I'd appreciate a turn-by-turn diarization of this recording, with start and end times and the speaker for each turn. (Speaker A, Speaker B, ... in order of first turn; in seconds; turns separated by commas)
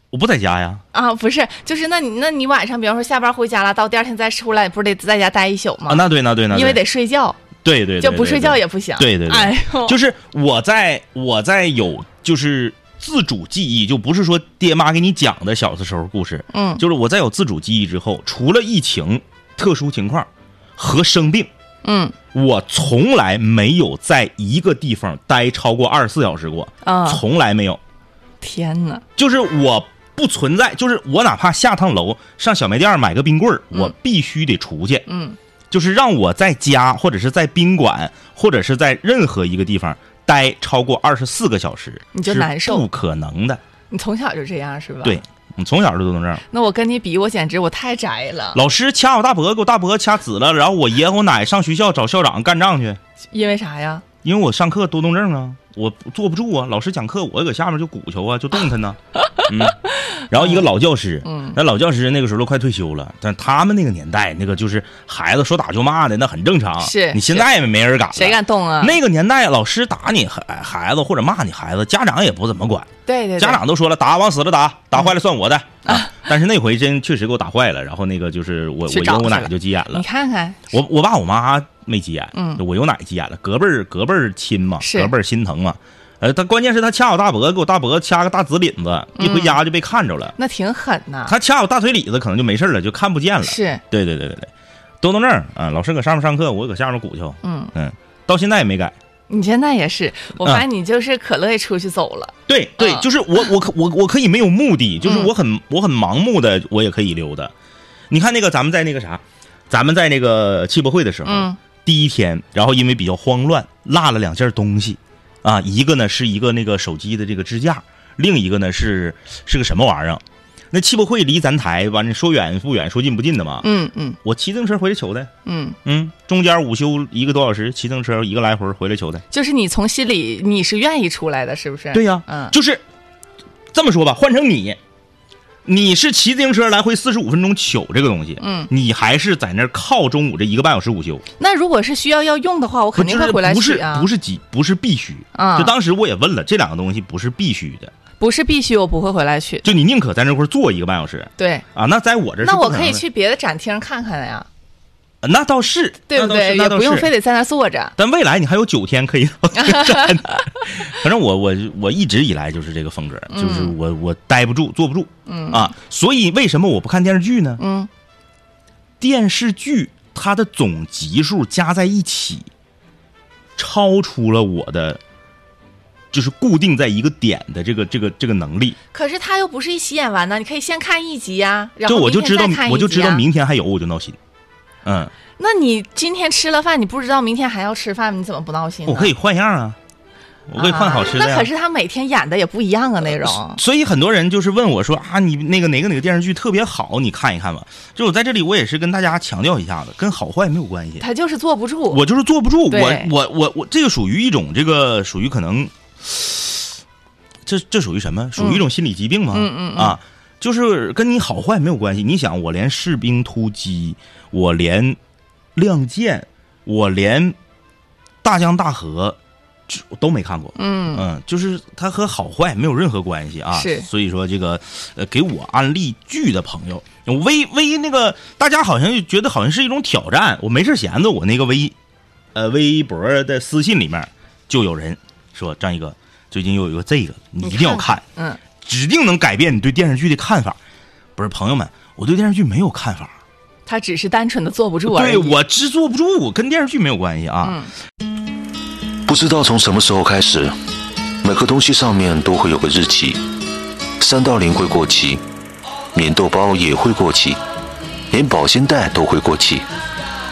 Speaker A: 0.1-0.8, Speaker B: 0.9-7.4, Speaker A: 5.9-6.8, Speaker A: 7.6-21.5, Speaker B: 8.0-10.0, Speaker B: 16.5-16.8, Speaker B: 21.8-22.1, Speaker A: 22.3-27.8, Speaker B: 26.8-27.2, Speaker B: 28.4-29.0, Speaker A: 29.2-35.0, Speaker B: 35.1-35.4, Speaker A: 35.7-43.6, Speaker B: 42.1-42.8, Speaker B: 43.9-45.2, Speaker A: 45.0-46.4, Speaker B: 46.5-48.6, Speaker A: 48.5-53.0, Speaker B: 53.3-54.0, Speaker A: 54.2-80.0, Speaker B: 60.3-60.6, Speaker B: 61.2-61.6, Speaker B: 66.8-67.5, Speaker B: 68.1-69.0, Speaker B: 73.0-73.6, Speaker B: 75.8-76.2, Speaker B: 78.9-80.7, Speaker A: 80.7-90.3, Speaker B: 82.3-82.6, Speaker B: 84.8-85.1, Speaker B: 89.2-89.6, Speaker B: 90.4-91.3, Speaker A: 91.3-94.5, Speaker B: 93.4-93.8, Speaker A: 95.0-98.9, Speaker B: 97.4-97.7, Speaker B: 99.3-103.0, Speaker A: 102.5-107.5, Speaker B: 105.0-105.3, Speaker A: 108.1-123.7, Speaker B: 111.2-111.6, Speaker B: 123.6-124.2, Speaker A: 124.2-125.3, Speaker B: 125.4-125.8, Speaker A: 125.8-129.2, Speaker B: 129.3-132.5, Speaker A: 131.9-132.8, Speaker A: 133.7-134.8, Speaker A: 135.6-141.2, Speaker B: 138.4-138.7, Speaker B: 141.4-144.1, Speaker A: 142.9-147.9, Speaker B: 145.3-145.7, Speaker B: 148.2-149.7, Speaker A: 149.6-153.0, Speaker B: 151.4-151.6, Speaker B: 152.4-154.5, Speaker A: 155.2-157.1, Speaker B: 156.1-157.9, Speaker A: 158.0-167.6, Speaker B: 159.5-160.5, Speaker B: 163.3-163.7, Speaker B: 165.3-165.7, Speaker B: 167.6-167.9, Speaker A: 169.0-172.5, Speaker A: 173.6-175.0, Speaker A: 176.1-178.8, Speaker B: 178.9-183.2, Speaker A: 181.8-184.2, Speaker A: 184.8-185.1, Speaker B: 185.4-189.1, Speaker A: 188.9-189.8, Speaker A: 190.5-191.5, Speaker B: 190.6-193.6, Speaker A: 193.0-201.0, Speaker B: 201.0-202.0, Speaker A: 201.9-206.7, Speaker B: 202.7-203.1, Speaker A: 207.4-215.0, Speaker B: 208.4-208.6, Speaker B: 209.3-210.0, Speaker A: 215.5-217.3, Speaker A: 218.2-231.7, Speaker B: 220.6-221.0, Speaker B: 223.5-223.9, Speaker A: 232.3-238.0, Speaker B: 237.4-238.4, Speaker A: 238.6-240.6, Speaker A: 241.2-243.1, Speaker B: 243.7-245.4, Speaker A: 244.8-247.6, Speaker B: 247.4-247.7, Speaker C: 249.1-250.5, Speaker C: 251.2-253.2, Speaker C: 254.0-255.2, Speaker C: 255.9-257.4, Speaker C: 258.1-259.6